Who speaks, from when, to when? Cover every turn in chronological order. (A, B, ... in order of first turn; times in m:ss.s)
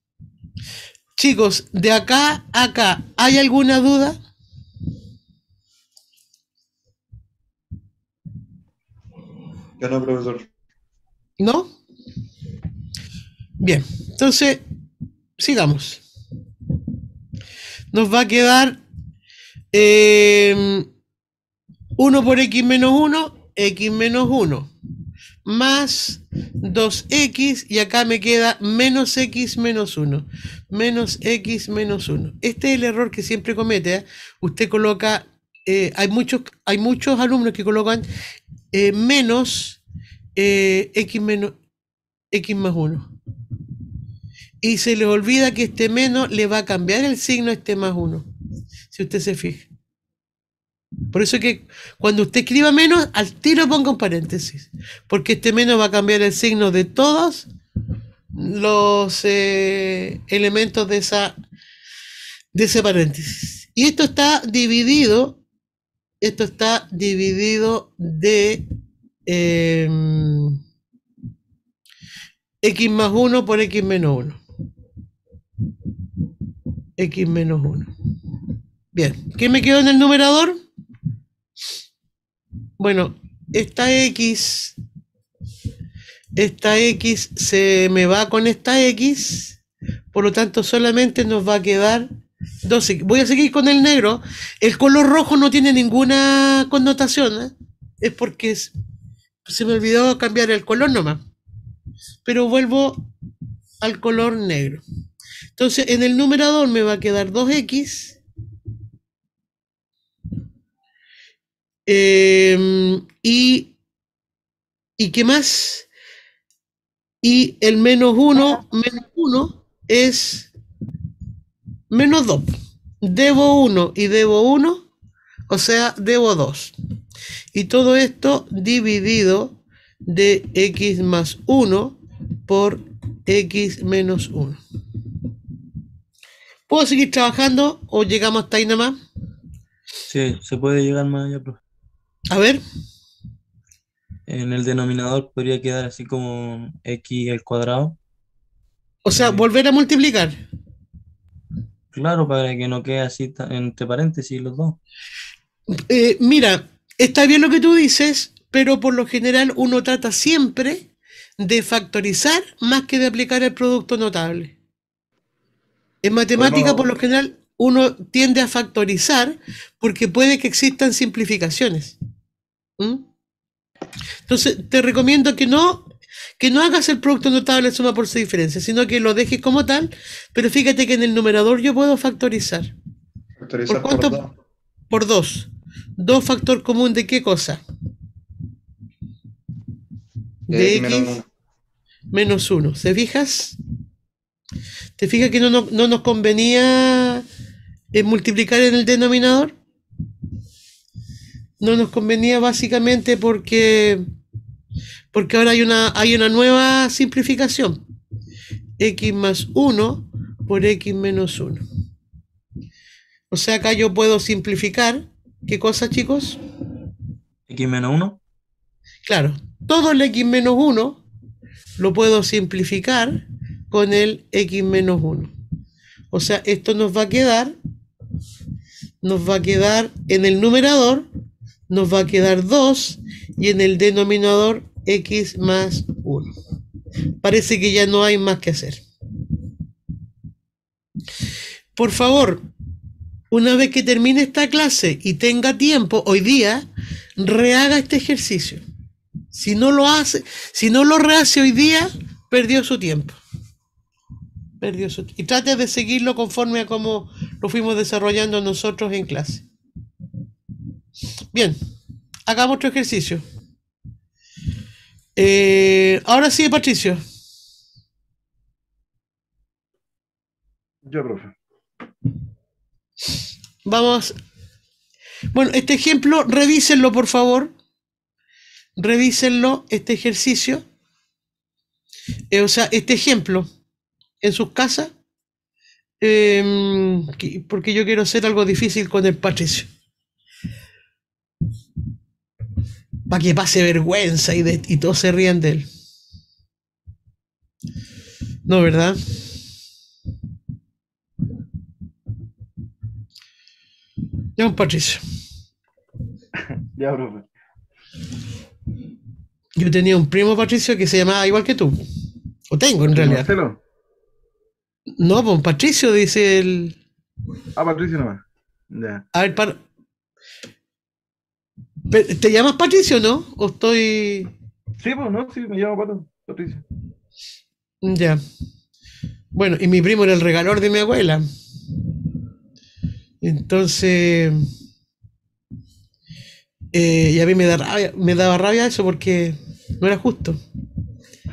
0:01.2-0:04.2 A
0:09.8-0:10.5 B
0:11.4-0:11.7 A
0:13.6-0:14.6 A
0:15.4-0:16.0 A
0:17.9-0:18.8 A
0:19.7-0:20.9 A
0:22.0-0:24.7 A
0:25.5-0:38.0 A
0:38.7-0:39.8 A
0:40.4-0:41.5 A
0:42.3-0:43.1 A
0:44.6-0:48.3 A
0:48.9-0:49.7 A
0:51.1-0:57.5 A
0:58.4-1:01.3 A
1:02.5-1:05.4 A
1:06.2-1:08.6 A
1:09.3-1:10.6 A
1:12.6-1:14.4 A
1:17.0-1:17.9 A
1:18.9-1:20.6 A
1:22.8-1:24.8 A
1:26.4-1:29.6 A
1:30.1-1:32.1 A
1:32.6-1:38.7 A
1:39.5-1:41.2 A
1:42.2-1:43.0 A
1:43.8-1:44.8 A
1:45.6-1:48.2 A
1:51.9-1:53.7 A
1:55.0-1:55.9 A
1:57.2-2:00.5 A
2:01.9-2:02.5 A
2:03.0-2:04.8 A
2:05.5-2:06.7 A
2:07.5-2:14.6 A
2:16.7-2:19.0 A
2:20.1-2:21.6 C
2:22.3-2:22.6 A
2:24.3-2:28.0 C
2:29.0-2:30.4 A
2:29.2-2:29.4 C
2:31.9-2:34.8 C
2:35.8-2:40.9 A
2:41.4-2:44.5 A
2:46.0-2:52.0 A
2:46.4-2:46.9 B
2:52.8-2:53.0 A
2:54.3-2:55.9 A
2:56.4-3:02.7 A
3:03.4-3:04.3 B
3:03.7-3:04.2 A
3:04.9-3:07.6 A
3:10.5-3:11.3 B
3:10.5-3:11.2 A
3:12.1-3:13.6 A
3:15.0-3:17.2 A
3:17.9-3:19.5 A
3:21.6-3:24.0 A
3:25.1-3:27.8 A
3:28.8-3:31.6 A
3:33.3-3:36.4 A
3:37.5-3:38.2 C
3:39.1-3:41.0 A
3:41.8-3:45.3 A
3:46.1-3:47.5 A
3:49.0-3:51.1 A
3:51.7-3:56.3 A
3:57.2-3:58.8 A
4:01.8-4:02.4 A
4:03.3-4:06.7 A
4:07.2-4:08.6 A
4:09.3-4:13.2 A
4:14.6-4:19.4 A
4:22.3-4:23.2 A
4:25.2-4:27.0 A
4:30.8-4:31.4 D
4:33.6-4:34.2 A
4:35.3-4:37.5 A
4:38.8-4:40.6 A
4:42.3-4:43.5 A
4:44.2-4:44.9 A
4:46.0-4:49.7 A
4:53.1-4:55.7 A
4:58.5-4:59.0 A
5:04.4-5:05.0 A
5:06.4-5:07.3 D
5:09.6-5:11.8 A
5:12.5-5:13.3 A
5:12.9-5:13.6 D
5:15.0-5:16.8 A
5:17.6-5:19.0 D
5:19.1-5:19.6 A
5:21.9-5:24.3 A
5:24.8-5:26.6 D
5:27.8-5:28.2 A
5:29.3-5:31.2 A
5:33.2-5:34.4 A
5:36.7-5:40.4 A